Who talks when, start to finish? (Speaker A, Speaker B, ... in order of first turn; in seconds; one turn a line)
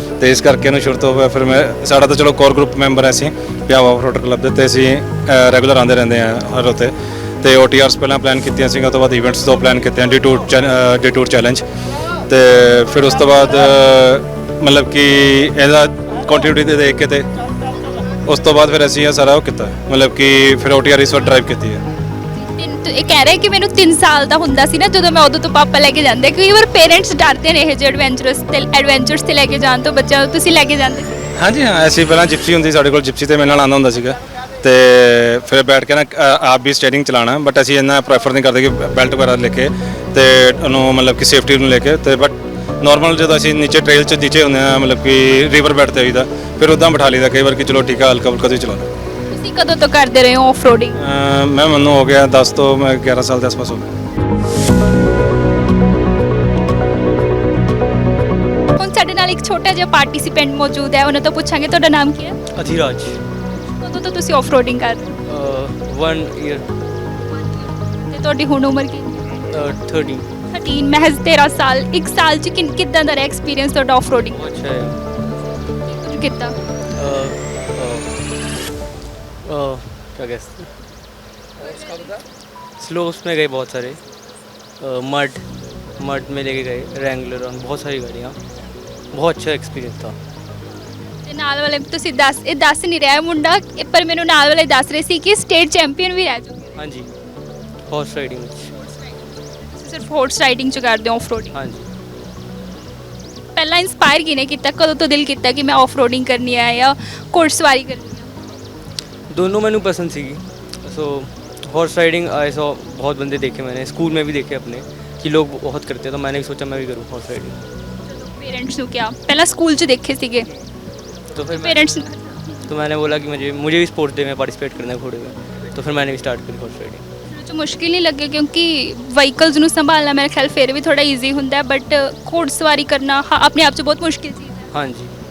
Speaker A: 0.2-6.9
Speaker A: 7.4-11.6
Speaker A: 12.3-17.3
Speaker A: 18.3-21.8
Speaker B: 22.3-31.2
Speaker A: 31.4-48.9
Speaker B: 49.3-50.9
Speaker A: 51.0-53.8
Speaker B: 58.8-62.3
Speaker C: 62.5-63.2
Speaker B: 63.7-65.1
Speaker C: 65.3-66.6
Speaker B: 68.1-69.2
Speaker C: 69.5-70.3
Speaker B: 70.5-74.4
Speaker C: 74.3-75.0
Speaker B: 75.9-76.5
Speaker C: 77.0-78.0
Speaker C: 79.4-80.7
Speaker C: 82.8-84.0
Speaker C: 84.8-85.4
Speaker C: 86.0-88.4
Speaker C: 89.1-90.1
Speaker B: 91.2-96.7
Speaker C: 96.8-97.1
Speaker C: 97.9-98.7
Speaker B: 98.7-101.5
Speaker C: 101.5-101.9
Speaker B: 103.5-108.3
Speaker C: 109.3-117.6
Speaker B: 118.1-120.4
Speaker C: 121.3-121.8
Speaker B: 121.5-122.4
Speaker C: 122.7-127.0
Speaker B: 127.3-134.7
Speaker C: 134.7-135.1